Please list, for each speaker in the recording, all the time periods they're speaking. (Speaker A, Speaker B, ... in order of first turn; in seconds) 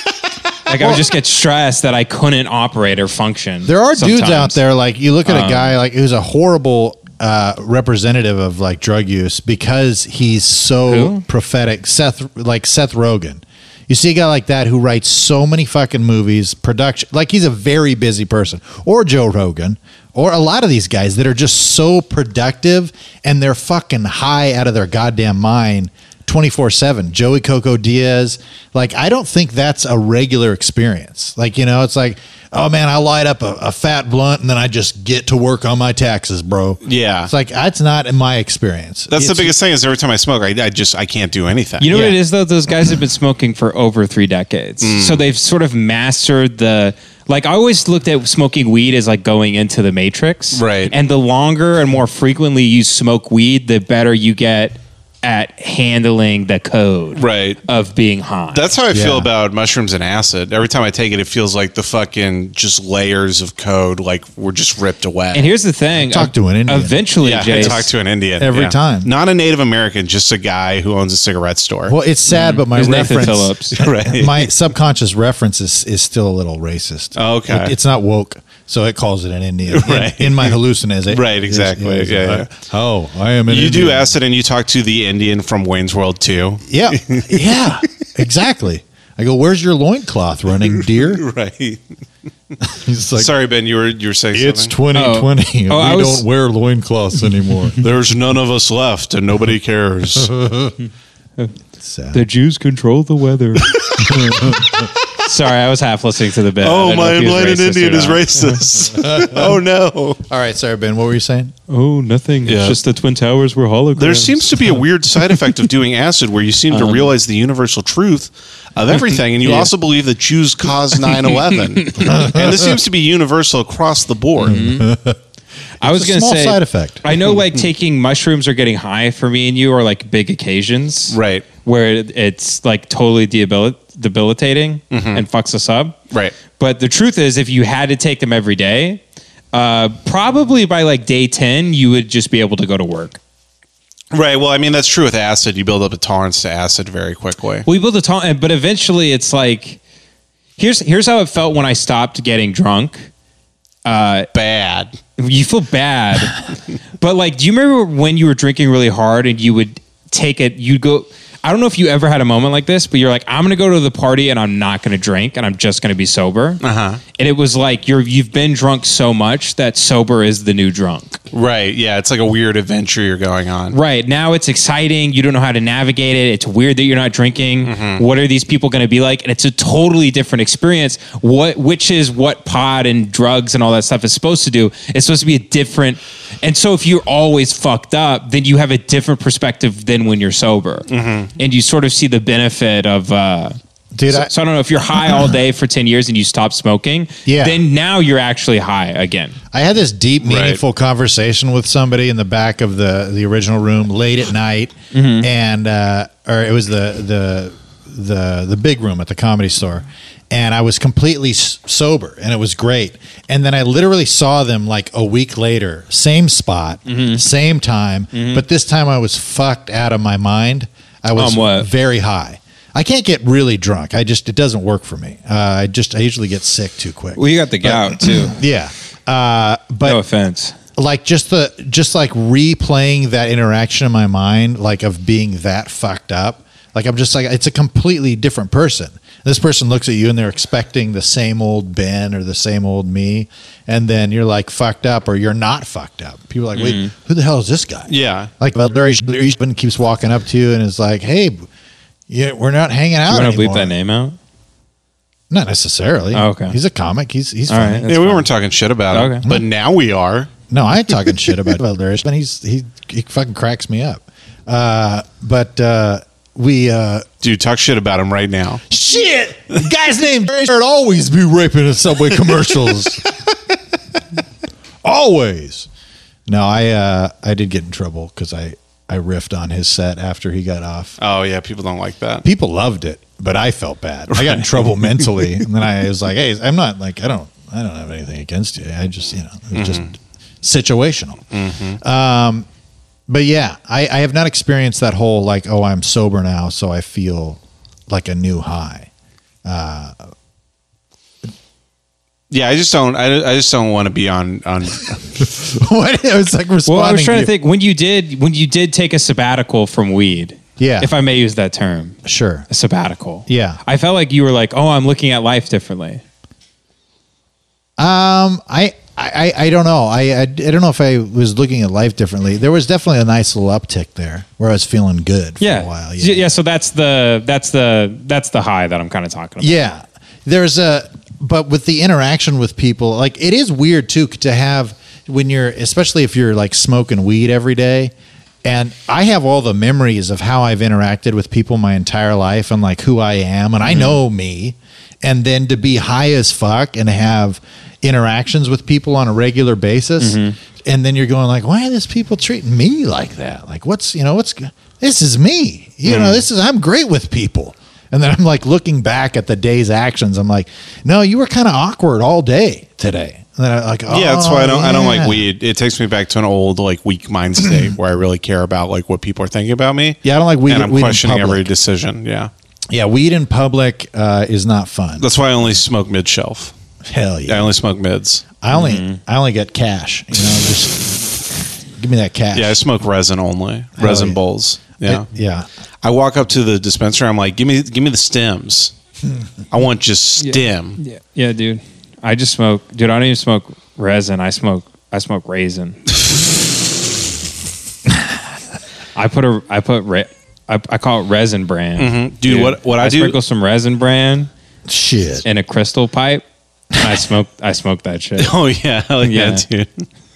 Speaker A: 0.7-4.6, 5.2-5.8, 10.9-11.2, 41.8-58.7, 65.3-67.9, 72.3-73.8, 94.9-96.2, 102.1-103.8, 105.2-108.6, 111.7-115.3, 116.7-117.1, 118.9-119.7, 121.0-122.1, 124.4-124.9, 125.8-139.0, 139.5-143.2, 147.7-149.8, 150.6-153.1, 153.8-154.3, 155.2-156.4, 157.0-166.6, 167.1-171.2, 173.7-193.6, 194.1-199.3, 204.9-205.3, 216.9-217.2, 218.1-218.4, 221.2-221.7, 227.2-228.4, 229.8-230.5, 246.6-246.9, 253.1-254.2, 256.1-256.6, 257.5-257.9, 258.9-259.2, 306.6-312.0, 312.5-316.0, 325.4-329.6, 343.7-343.9, 350.0-350.3, 378.5-379.0, 390.2-395.8, 398.9-404.3, 405.2-408.3, 409.0-409.4
Speaker B: 0.8-1.1, 3.6-39.5, 58.9-59.3, 65.9-67.8, 68.4-69.1, 71.9-84.1, 86.7-91.2, 92.6-93.3, 94.3-97.8, 100.2-100.7, 101.8-102.2, 104.1-104.7, 108.9-109.5, 110.3-111.5, 122.0-122.7, 124.5-125.2, 125.8-127.0, 193.9-194.3, 197.2-197.6, 199.5-230.0, 230.8-251.4, 252.1-253.7, 255.3-258.3, 260.5-267.1, 268.7-273.1, 274.8-275.7, 276.2-281.0, 282.2-291.2, 291.8-292.5, 293.1-298.9, 299.4-300.0, 305.2-307.3, 310.6-310.9, 312.0-312.5, 313.3-313.6, 317.8-326.3, 329.4-337.9, 338.4-365.2, 370.0-371.5, 372.7-375.1, 376.9-377.5, 378.4-381.2, 381.8-382.6, 383.8-384.2, 384.8-385.5, 404.7-405.2
Speaker C: 36.8-37.3, 39.1-42.1, 44.8-45.2, 50.5-50.9, 57.1-57.6, 58.5-65.5, 67.2-72.0, 73.7-74.5, 77.1-77.7, 79.7-80.6, 81.1-82.5, 83.5-87.7, 90.7-91.8, 93.2-94.7, 97.8-100.3, 103.7-104.0, 106.6-110.2, 112.5-112.8, 114.0-124.6, 131.1-131.4, 134.9-135.2, 144.1-147.7, 154.3-155.0, 166.6-167.0, 171.3-173.8, 177.6-178.0, 190.9-191.3, 200.2-200.6, 247.9-248.3, 257.9-260.3, 267.2-268.6, 281.0-282.2, 284.1-285.4, 289.5-289.9, 291.3-291.8, 302.3-305.0, 355.8-356.2, 363.9-372.3, 375.0-376.5, 377.3-378.2, 382.3-385.1, 385.8-388.7, 389.5-390.8, 401.8-403.2, 408.2-409.8